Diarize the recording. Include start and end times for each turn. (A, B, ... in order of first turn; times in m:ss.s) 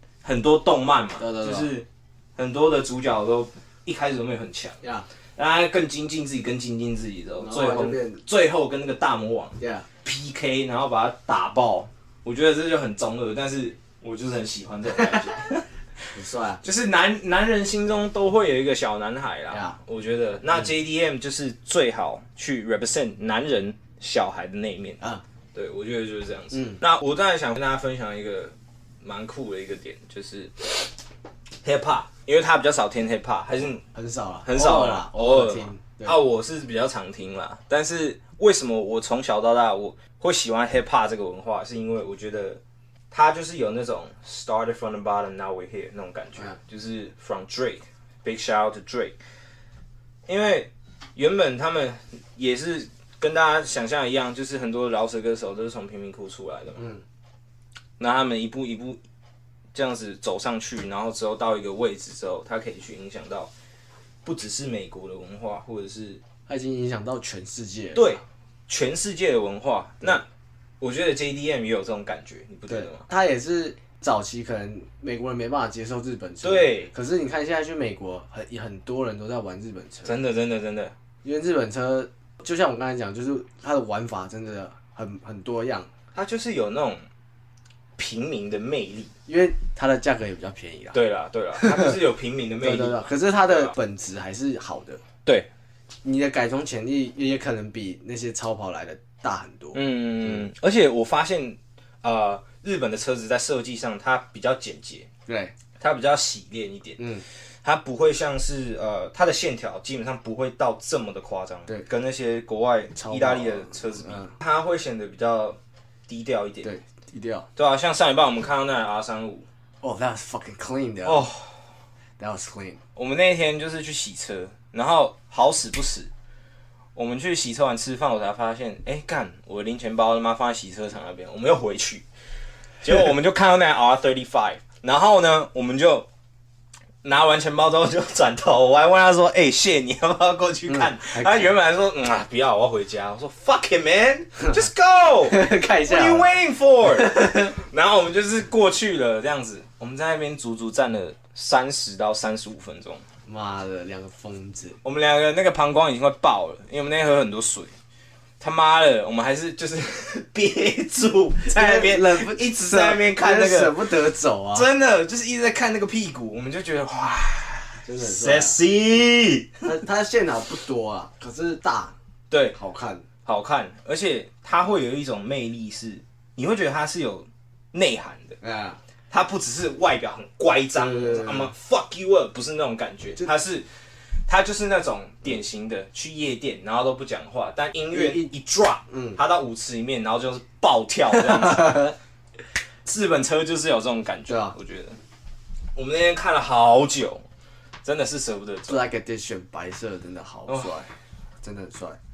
0:00.2-0:04.8 A
0:01.2-0:01.7 B
0:04.8-0:05.1 B
0:05.4-0:15.7 A
0:07.4-0:08.2 B
0:09.6-0:09.9 B
0:16.1-0:16.6 B
0:16.6-0:25.0 A
0:19.5-0:19.8 B
0:25.5-0:30.9 A
0:26.5-0:26.8 B
0:31.6-0:33.8 A
0:33.7-0:36.2 B
0:34.4-0:49.2 A
0:50.3-0:56.9 A
0:58.0-0:59.0 A
0:59.7-1:03.5 A
1:04.2-1:06.2 A
1:06.5-1:08.2 B
1:07.9-1:10.2 A
1:10.8-1:13.0 A
1:12.7-1:20.2 B
1:16.4-1:16.9 A
1:20.0-1:20.9 A
1:21.2-1:25.9 B
1:26.1-1:27.0 A
1:28.0-1:29.1 A
1:29.3-1:31.0 B
1:30.9-1:33.0 A
1:31.5-1:32.0 B
1:32.6-1:35.0 B
1:36.0-1:40.4 B
1:39.7-1:45.1 A
1:45.3-1:45.5 B
1:45.8-1:56.7 A
1:47.0-1:47.2 B
1:52.9-1:54.3 B
1:56.6-1:57.5 B
1:57.6-1:59.5 A
1:59.8-2:01.2 B
2:01.0-2:01.6 A
2:02.2-2:02.8 B
2:03.0-2:06.1 A
2:06.9-2:12.0 A
2:12.8-2:16.1 A
2:17.0-2:33.0 A
2:20.7-2:21.5 B
2:25.2-2:26.3 B
2:27.0-2:27.5 B
2:33.2-2:34.8 B
2:34.8-2:37.7 A
2:38.4-2:43.8 A
2:41.4-2:44.7 B
2:44.5-2:49.6 A
2:47.8-2:48.6 B
2:49.6-2:52.0 B
2:52.3-2:52.6 A
2:52.5-2:53.0 B
2:53.2-2:58.4 A
2:58.4-2:58.8 B
2:59.1-3:03.7 A
3:00.8-3:01.5 B
3:04.3-3:11.9 A
3:07.9-3:08.3 B
3:08.9-3:09.2 B
3:12.8-3:15.0 A
3:14.3-3:14.6 B
3:15.7-3:17.2 A
3:17.8-3:18.8 A
3:18.6-3:20.9 B
3:20.5-3:20.7 A
3:21.4-3:22.0 B